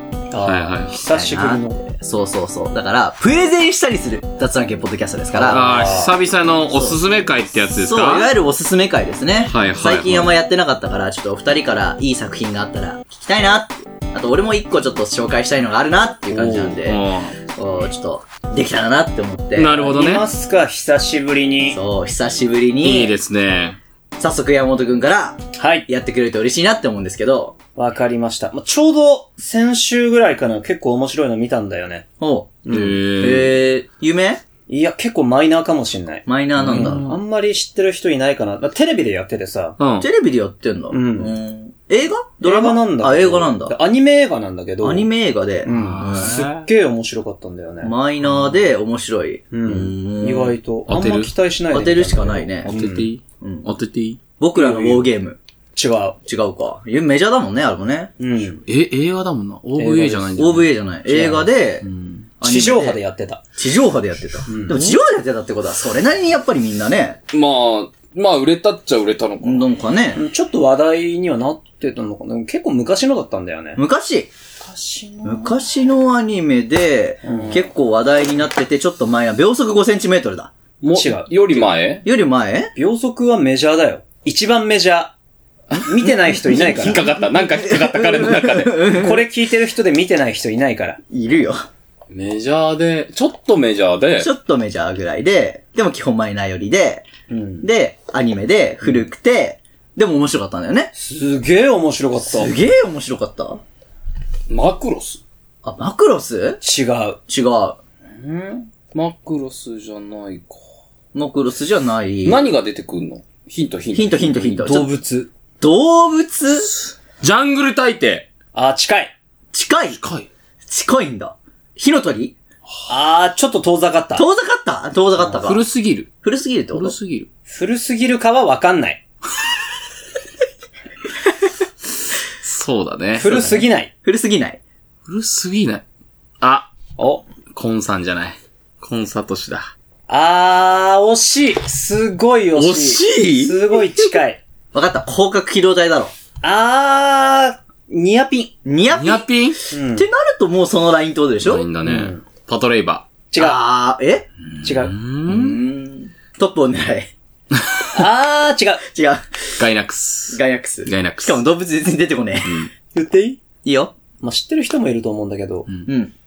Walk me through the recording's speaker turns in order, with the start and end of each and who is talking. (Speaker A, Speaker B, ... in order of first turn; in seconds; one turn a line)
Speaker A: 0.3-1.9
Speaker B: 0.4-0.9
Speaker C: 1.0-6.1
Speaker B: 5.4-8.3
Speaker A: 5.5-6.1
Speaker C: 6.7-7.0
Speaker C: 7.7-19.9
Speaker B: 9.5-10.3
Speaker A: 16.4-16.7
Speaker B: 16.4-17.4
Speaker B: 19.6-20.3
Speaker A: 19.8-21.8
Speaker C: 21.7-23.1
Speaker B: 22.8-23.8
Speaker C: 24.2-27.6
Speaker A: 25.6-25.9
Speaker A: 27.8-32.0
Speaker C: 32.2-34.4
Speaker A: 32.7-33.0
Speaker B: 32.7-33.5
Speaker A: 34.7-39.8
Speaker C: 36.3-37.0
Speaker B: 36.6-37.1
Speaker B: 39.8-40.1
Speaker C: 40.0-43.8
Speaker A: 40.9-41.3
Speaker A: 42.4-45.1
Speaker C: 44.8-46.4
Speaker A: 45.6-48.5
Speaker B: 45.7-46.7
Speaker C: 47.8-50.5
Speaker A: 49.5-53.1
Speaker B: 50.9-51.3
Speaker C: 51.7-52.7
Speaker B: 52.7-54.2
Speaker C: 53.4-53.7
Speaker C: 54.4-55.4
Speaker A: 54.5-55.1
Speaker A: 55.7-56.2
Speaker C: 56.2-58.2
Speaker A: 58.2-58.6
Speaker B: 58.7-60.7
Speaker A: 59.8-60.5
Speaker C: 60.4-61.8
Speaker A: 61.1-61.5
Speaker B: 61.8-62.2
Speaker C: 62.4-63.0
Speaker A: 62.4-63.4
Speaker C: 63.6-67.2
Speaker A: 64.5-64.8
Speaker B: 67.3-69.7
Speaker C: 69.4-70.2
Speaker A: 70.1-73.8
Speaker C: 73.8-74.3
Speaker A: 74.6-75.6
Speaker C: 75.2-80.5
Speaker A: 77.2-77.6
Speaker B: 80.8-82.0
Speaker A: 80.9-81.6
Speaker C: 82.0-82.7
Speaker A: 82.8-85.1
Speaker B: 85.7-88.9
Speaker A: 85.8-87.0
Speaker C: 86.0-89.3
Speaker A: 88.8-91.0
Speaker C: 91.1-91.6
Speaker B: 92.1-94.3
Speaker C: 94.2-97.1
Speaker A: 97.3-97.7
Speaker C: 97.6-100.9
Speaker A: 101.0-102.5
Speaker C: 102.3-103.6
Speaker B: 104.5-105.2
Speaker C: 105.6-106.6
Speaker A: 106.6-107.2
Speaker C: 107.3-107.8
Speaker B: 108.7-110.7
Speaker C: 111.1-112.5
Speaker B: 112.2-114.7
Speaker C: 113.9-114.9
Speaker A: 114.6-115.3
Speaker C: 115.6-116.7
Speaker B: 117.2-118.3
Speaker A: 118.5-119.1
Speaker C: 119.5-120.0
Speaker B: 120.0-120.3
Speaker C: 120.7-122.4
Speaker A: 122.9-124.3
Speaker C: 124.2-125.6
Speaker B: 125.4-126.1
Speaker C: 126.2-127.0
Speaker B: 126.7-127.3
Speaker A: 127.5-129.0
Speaker B: 132.4-133.5
Speaker A: 133.1-133.9
Speaker C: 133.3-134.6
Speaker B: 135.1-135.8
Speaker B: 136.4-136.7
Speaker A: 137.0-137.2
Speaker B: 137.5-139.7
Speaker A: 140.1-144.4
Speaker B: 142.6-144.1
Speaker C: 144.7-146.1
Speaker A: 146.4-148.5
Speaker C: 148.6-149.3
Speaker B: 148.9-149.6
Speaker A: 149.7-150.1
Speaker C: 149.9-151.7
Speaker B: 151.4-153.1
Speaker A: 151.8-152.2
Speaker A: 153.3-153.6
Speaker C: 153.4-154.3
Speaker B: 154.6-155.6
Speaker A: 154.6-154.9
Speaker C: 155.3-157.1
Speaker A: 157.9-158.8
Speaker C: 158.8-159.2
Speaker B: 159.6-161.4
Speaker C: 160.3-162.7
Speaker B: 162.4-162.7
Speaker A: 162.9-163.4
Speaker C: 163.6-163.9
Speaker A: 164.2-165.7
Speaker C: 165.9-166.1